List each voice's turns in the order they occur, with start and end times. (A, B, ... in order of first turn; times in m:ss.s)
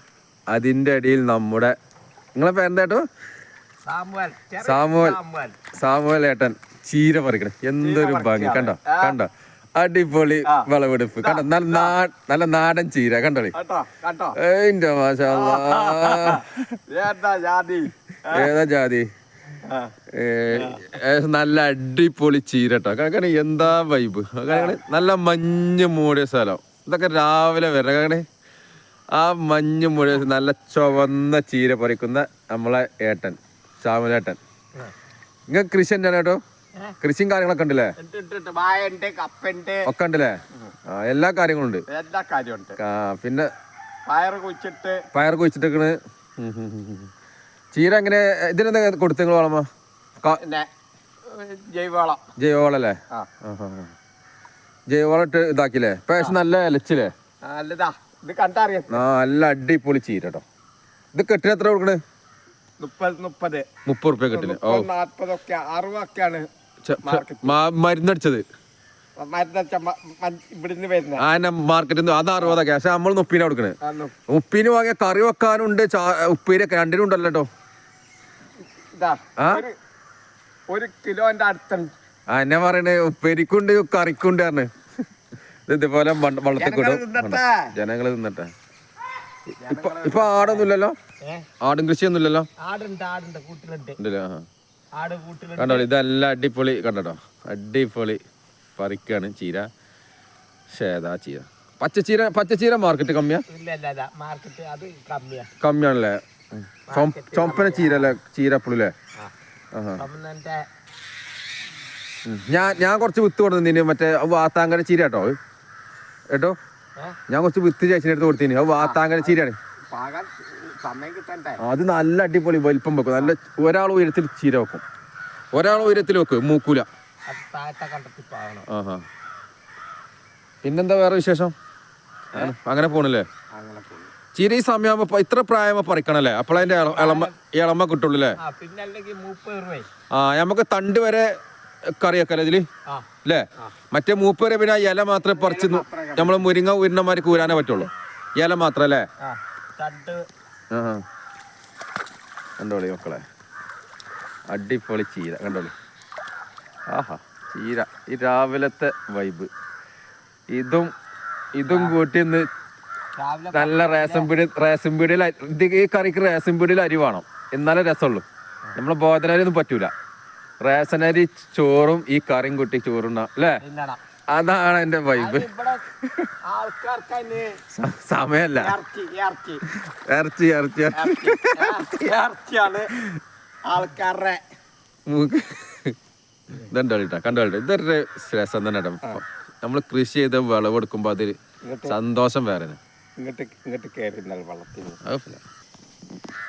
0:00.5-0:01.7 A
0:02.4-0:03.0 A
0:03.8-0:05.6 B
0:04.6-0:05.2 A
0:05.7-0:13.5 A
0:07.8-0:09.2 B
0:10.5-0:12.0 B
0:13.5-0:14.4 B
0:14.4-0:16.8 A
0:15.2-0:18.5 B
0:18.3-0:19.1 A
0:19.6-0:19.9 B
0:20.1-0:28.2 A
0:20.5-0:20.8 B
0:24.5-0:24.8 B
0:29.1-0:34.4 A
0:35.5-0:36.4 A
0:37.0-0:38.0 A
0:38.0-0:39.9 B
0:39.9-0:40.4 A
0:40.9-0:41.8 A
0:41.9-0:42.8 B
0:42.8-0:43.5 A
0:44.1-0:45.0 B
0:45.1-0:47.1 A
0:47.7-0:49.7 A
0:50.3-0:50.7 B
0:51.3-0:52.2 B
0:52.4-0:53.9 A
0:54.9-0:57.1 A
0:57.4-0:59.0 B
0:58.9-1:00.4 A
1:01.1-1:02.0 A
1:02.8-1:03.7 B
1:03.9-1:04.9 A
1:04.3-1:06.5 B
1:06.9-1:08.4 A
1:07.0-1:07.6 B
1:09.2-1:11.2 B
1:11.2-1:13.8 A
1:13.8-1:14.1 B
1:14.3-1:17.5 A
1:18.9-1:19.8 B
1:19.4-1:19.6 A
1:20.7-1:21.9 B
1:22.3-1:24.7 A
1:25.7-1:28.5 A
1:26.6-1:27.7 B
1:29.6-1:30.7 B
1:29.7-1:31.0 A
1:31.6-1:32.5 A
1:32.6-1:34.0 B
1:34.0-1:34.5 A
1:35.0-1:35.9 B
1:35.6-1:38.2 A
1:38.8-1:39.7 A
1:40.7-1:43.4 A
1:43.5-1:45.5 B
1:45.6-1:48.9 A
1:46.9-1:48.2 B
1:49.8-1:50.0 A
1:50.0-1:50.6 B
1:52.3-1:55.4 A
1:57.3-1:59.6 A
1:58.8-1:59.4 B
1:59.9-2:01.6 B
2:01.6-2:04.8 A
2:05.5-2:06.9 A
2:05.6-2:06.1 B
2:07.3-2:08.7 B
2:08.7-2:09.0 A
2:10.6-2:11.5 A
2:12.3-2:13.3 A
2:13.5-2:14.1 B
2:14.4-2:18.4 A
2:16.6-2:17.4 B
2:18.4-2:19.9 B
2:20.1-2:21.3 A
2:22.0-2:22.6 A
2:23.2-2:29.1 A
2:25.3-2:26.5 B
2:29.2-2:30.2 B
2:30.7-2:31.0 A
2:32.6-2:33.2 A
2:34.5-2:35.7 A
2:36.9-2:39.5 A
2:40.5-2:40.9 A
2:41.6-2:42.5 A
2:41.7-2:42.0 B
2:43.2-2:44.3 B
2:43.5-2:49.9 A
2:50.6-2:53.6 A
2:53.6-2:54.0 B
2:54.3-2:55.5 A
2:55.2-2:55.8 B
2:56.4-2:57.6 B
2:57.7-2:58.8 A
2:58.6-2:59.6 B
2:59.7-3:01.8 A
3:00.9-3:02.9 B
3:03.7-3:04.4 B
3:05.1-3:06.0 A
3:06.5-3:12.8 A
3:11.6-3:12.0 B
3:13.2-3:15.0 B
3:15.0-3:15.4 A